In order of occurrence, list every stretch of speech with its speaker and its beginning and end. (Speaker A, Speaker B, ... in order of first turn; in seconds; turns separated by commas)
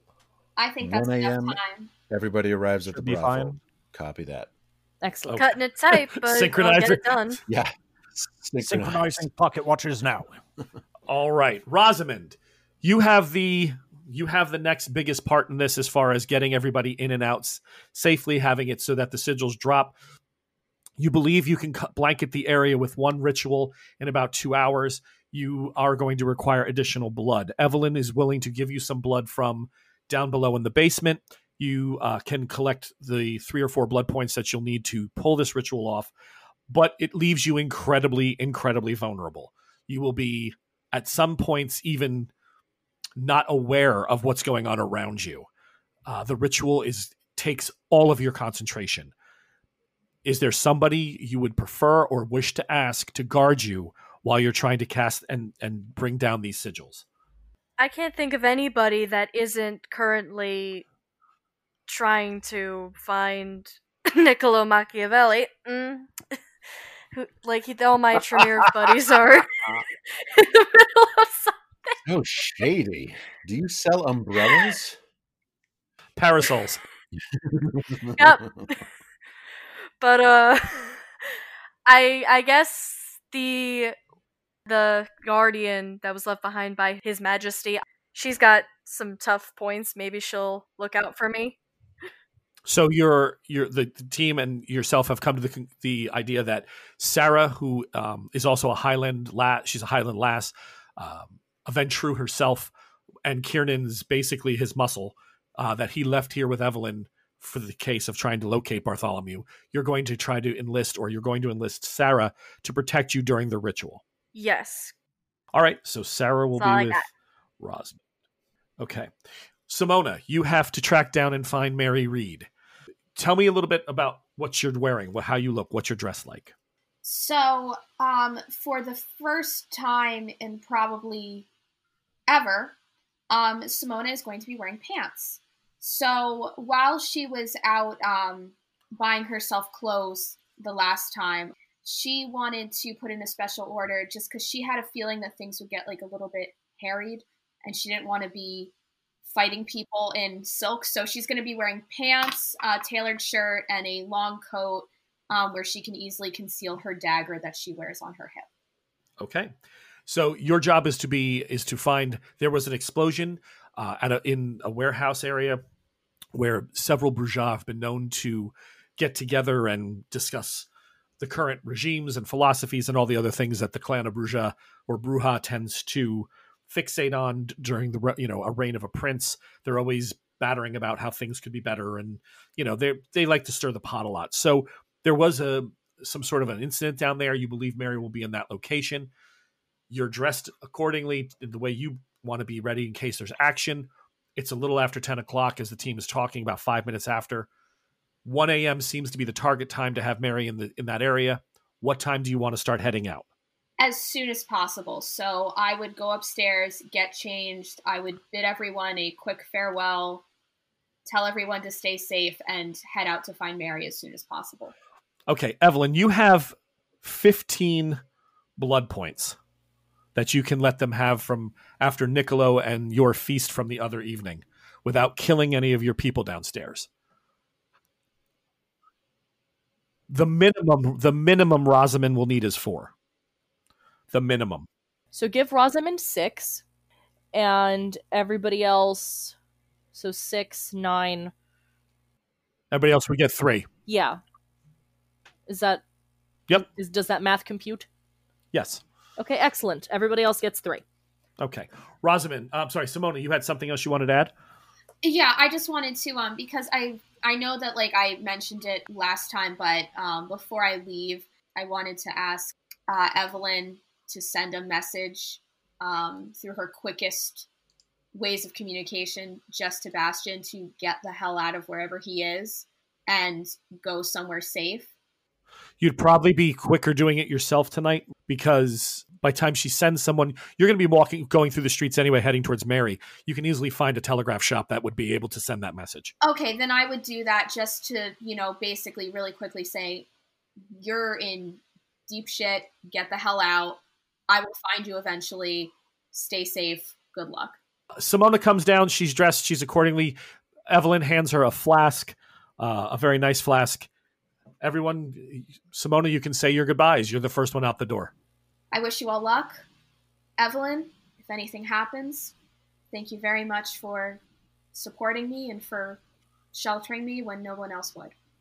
Speaker A: 0.6-1.9, Speaker B: 0.8-4.5, Speaker C: 2.9-3.6, Speaker D: 5.0-5.5, Speaker E: 5.3-7.1, Speaker F: 5.4-7.4, Speaker B: 7.5-9.3, Speaker C: 8.6-10.4, Speaker E: 11.1-19.9, Speaker E: 21.0-36.1, Speaker E: 36.7-42.3, Speaker E: 43.2-45.5, Speaker E: 46.1-49.1, Speaker E: 50.2-57.0, Speaker F: 57.8-60.9, Speaker F: 61.9-66.4, Speaker F: 67.1-72.0, Speaker E: 68.1-68.9, Speaker B: 72.0-75.0, Speaker E: 76.2-76.8, Speaker B: 77.3-78.6, Speaker F: 78.2-78.8, Speaker F: 80.0-81.0, Speaker F: 81.9-84.0, Speaker F: 84.7-91.6, Speaker E: 92.7-102.7, Speaker E: 103.2-114.0, Speaker F: 114.3-114.9, Speaker E: 115.5-117.0, Speaker F: 116.6-117.1, Speaker E: 117.6-118.0, Speaker E: 118.8-119.1, Speaker E: 119.7-122.5, Speaker E: 123.2-126.5, Speaker A: 127.0-131.5, Speaker A: 132.3-132.8, Speaker A: 133.3-148.7, Speaker A: 149.3-158.5, Speaker E: 159.2-159.5, Speaker E: 160.1-165.6, Speaker E: 166.3-170.7, Speaker E: 171.2-189.1, Speaker E: 189.9-197.5, Speaker E: 198.2-203.3, Speaker A: 203.8-210.2, Speaker A: 211.1-214.7, Speaker E: 215.3-218.0, Speaker E: 218.6-219.4, Speaker E: 220.2-226.9, Speaker E: 230.1-232.9, Speaker E: 234.1-234.7, Speaker D: 235.1-236.6, Speaker D: 237.3-239.3, Speaker D: 239.9-241.3, Speaker E: 242.7-243.7, Speaker D: 243.9-244.2, Speaker D: 245.5-245.8, Speaker D: 246.6-247.9, Speaker E: 248.5-248.8, Speaker D: 249.2-250.8, Speaker E: 251.4-254.3, Speaker A: 255.0-267.5, Speaker A: 268.1-274.9, Speaker E: 275.8-286.1, Speaker A: 286.2-290.1, Speaker A: 290.7-297.6, Speaker E: 298.0-300.2, Speaker E: 300.7-303.9, Speaker E: 304.6-308.1, Speaker A: 308.7-309.6, Speaker A: 310.4-312.4, Speaker A: 312.9-314.2, Speaker A: 314.7-316.0, Speaker A: 316.5-318.1